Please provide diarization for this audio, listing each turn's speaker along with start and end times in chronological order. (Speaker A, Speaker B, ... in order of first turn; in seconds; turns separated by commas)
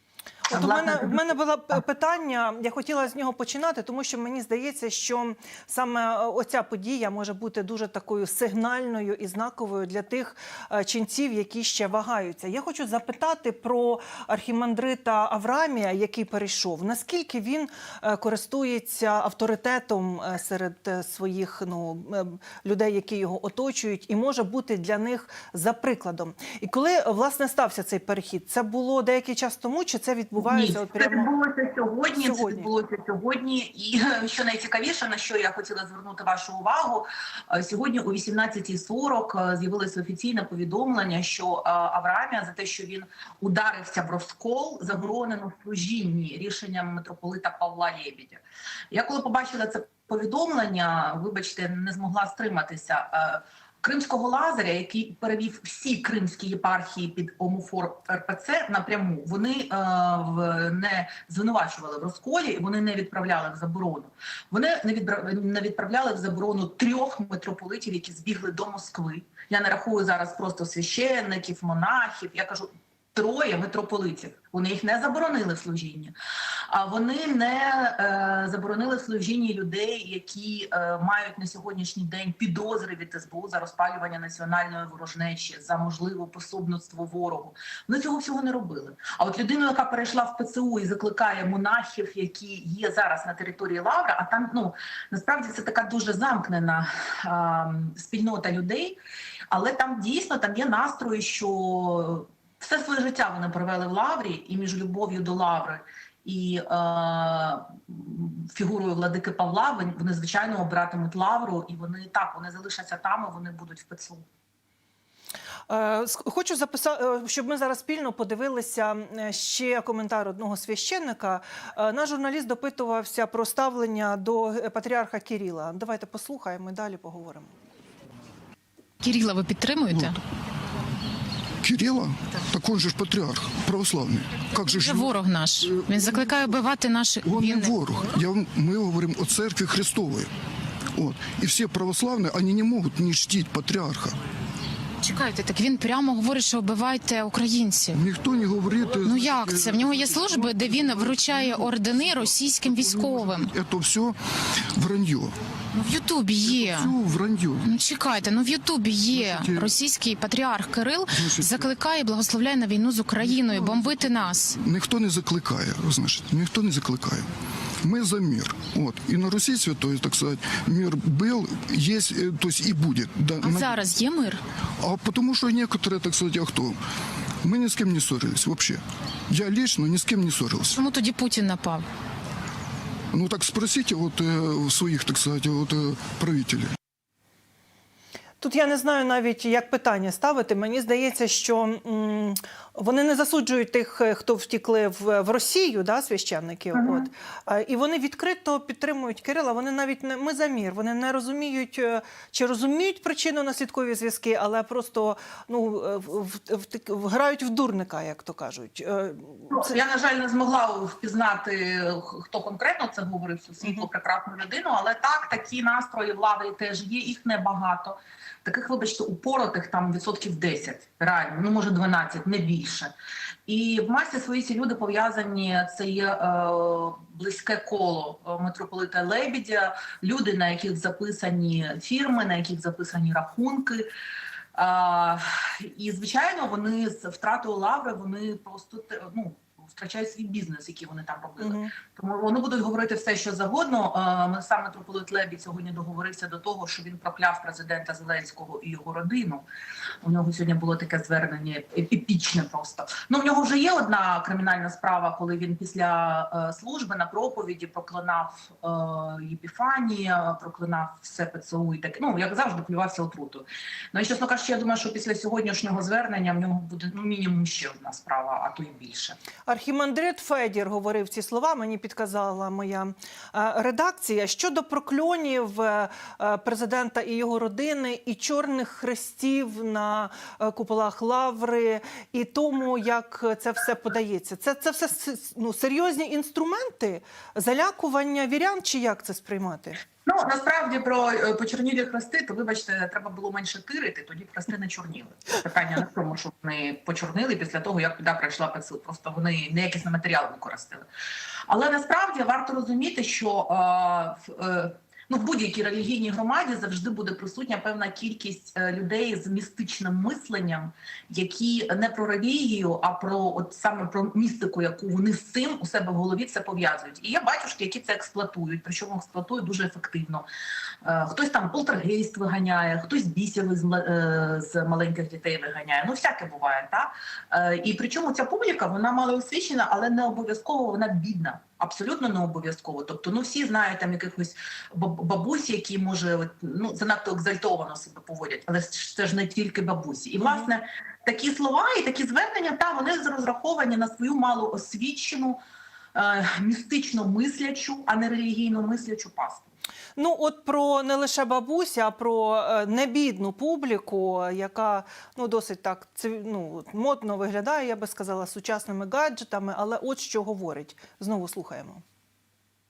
Speaker A: 0.5-31.3, Speaker B: 0.5-1.2, Speaker B: 30.4-76.1, Speaker A: 32.2-32.7, Speaker B: 76.7-99.0, Speaker B: 99.5-114.2, Speaker A: 115.7-127.5, Speaker C: 129.0-130.2, Speaker D: 131.6-136.6, Speaker C: 134.6-138.0, Speaker D: 137.2-140.3, Speaker D: 140.9-144.2, Speaker C: 145.0-148.0, Speaker D: 147.9-155.3, Speaker C: 149.0-153.5, Speaker C: 155.7-156.9, Speaker D: 156.4-157.8, Speaker C: 157.7-164.6, Speaker D: 159.1-159.7, Speaker D: 161.1-161.7, Speaker D: 163.2-167.3, Speaker D: 167.8-173.8, Speaker C: 173.4-174.4, Speaker D: 174.8-176.8, Speaker D: 177.4-180.8, Speaker C: 180.7-181.8, Speaker D: 183.1-186.7, Speaker A: 188.4-209.7, Speaker B: 196.7-197.1, Speaker B: 209.5-222.9, Speaker B: 223.5-233.9, Speaker B: 234.5-249.4, Speaker A: 241.4-241.7, Speaker B: 250.0-269.2, Speaker A: 269.5-289.8, Speaker B: 290.0-300.9, Speaker B: 301.5-320.2, Speaker B: 320.8-345.4, Speaker A: 340.2-340.5, Speaker B: 345.9-349.5, Speaker A: 350.0-361.8